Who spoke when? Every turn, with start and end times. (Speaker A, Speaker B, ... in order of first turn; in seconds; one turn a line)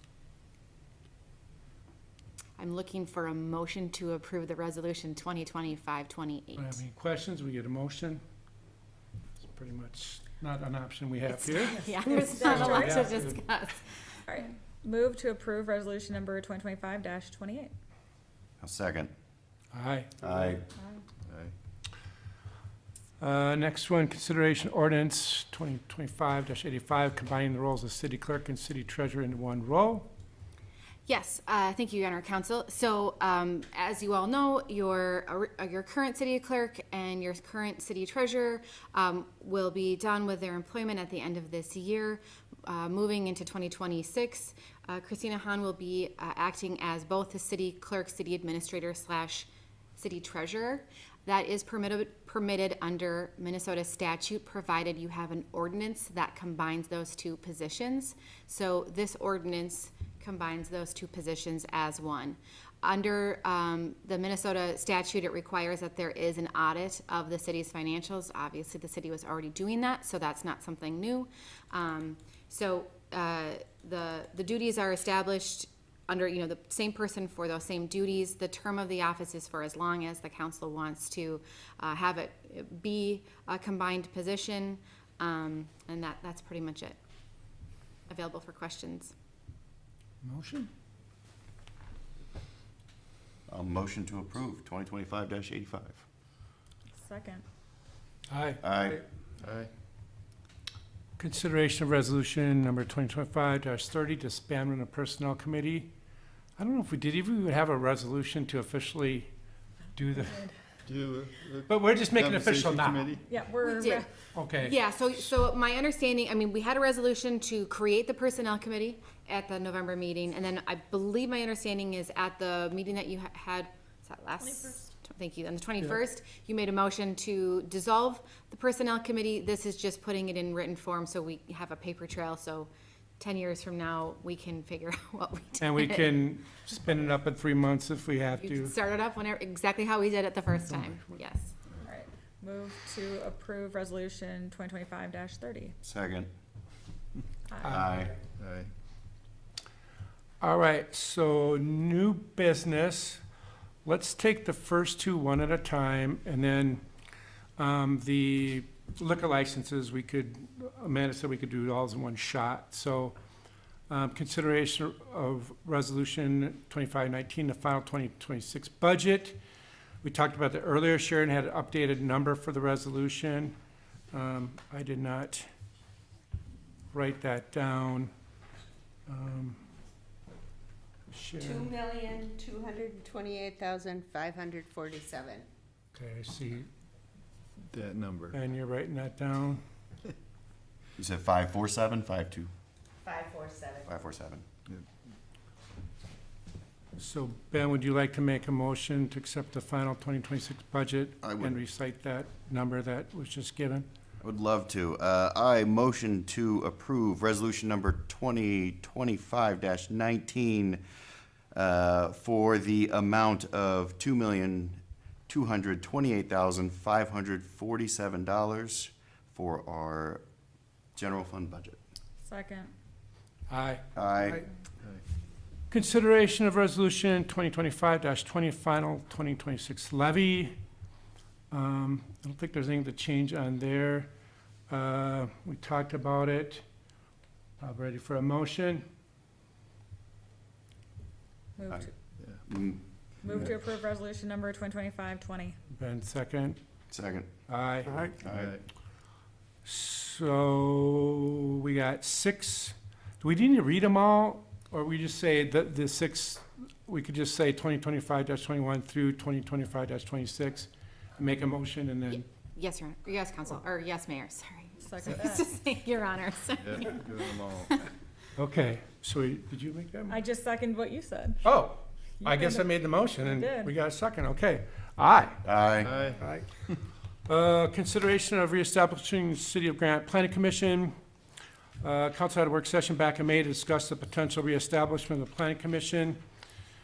Speaker A: 2.6-6.8
Speaker B: 6.6-8.2
Speaker B: 9.4-13.4
Speaker A: 11.3-14.0
Speaker C: 12.4-12.9
Speaker C: 14.3-17.7
Speaker D: 18.6-19.1
Speaker B: 19.7-20.1
Speaker D: 20.2-20.6
Speaker E: 21.2-21.5
Speaker B: 23.2-30.1
Speaker A: 31.1-87.0
Speaker A: 88.1-89.1
Speaker B: 90.2-90.7
Speaker D: 93.5-96.0
Speaker C: 97.0-97.4
Speaker B: 98.3-99.0
Speaker D: 98.6-99.0
Speaker E: 99.4-99.7
Speaker B: 101.2-105.9
Speaker B: 106.6-109.3
Speaker B: 109.9-110.5
Speaker E: 110.8-113.2
Speaker B: 111.7-113.1
Speaker C: 113.3-114.1
Speaker A: 113.6-132.7
Speaker B: 114.3-114.7
Speaker A: 133.2-136.2
Speaker B: 135.6-138.7
Speaker A: 138.4-141.5
Speaker B: 140.7-141.2
Speaker C: 141.9-145.7
Speaker D: 145.8-146.3
Speaker B: 147.6-147.9
Speaker D: 147.6-148.1
Speaker E: 148.3-148.7
Speaker B: 150.4-153.2
Speaker B: 153.8-156.8
Speaker B: 157.6-163.1
Speaker B: 163.9-169.4
Speaker B: 170.0-173.5
Speaker B: 174.1-175.5
Speaker B: 176.9-178.1
Speaker B: 179.1-179.6
Speaker B: 181.1-181.9
Speaker F: 181.4-185.5
Speaker B: 185.9-186.7
Speaker E: 187.7-188.4
Speaker B: 188.3-189.6
Speaker D: 191.0-192.5
Speaker F: 193.0-193.9
Speaker D: 193.8-194.4
Speaker B: 197.0-203.8
Speaker D: 201.2-201.6
Speaker D: 204.2-210.8
Speaker D: 211.5-220.2
Speaker D: 220.9-221.8
Speaker C: 222.2-222.7
Speaker B: 223.5-224.4
Speaker D: 223.9-224.4
Speaker B: 225.7-230.5
Speaker B: 231.5-234.1
Speaker B: 234.7-236.6
Speaker B: 237.6-238.8
Speaker C: 241.6-241.9
Speaker E: 242.2-242.4
Speaker D: 242.4-243.5
Speaker C: 243.2-245.5
Speaker B: 245.7-246.6
Speaker D: 246.9-247.3
Speaker B: 247.5-248.1
Speaker D: 248.2-248.6
Speaker E: 248.2-248.6
Speaker B: 249.6-262.2
Speaker A: 262.1-267.7
Speaker C: 264.9-265.4
Speaker E: 266.6-267.7
Speaker B: 268.4-270.2
Speaker C: 270.1-271.4
Speaker B: 271.4-275.4
Speaker C: 272.3-272.6
Speaker C: 273.3-273.7
Speaker D: 275.4-275.9
Speaker E: 275.8-276.2
Speaker B: 276.2-276.5
Speaker B: 277.2-280.9
Speaker B: 281.8-286.2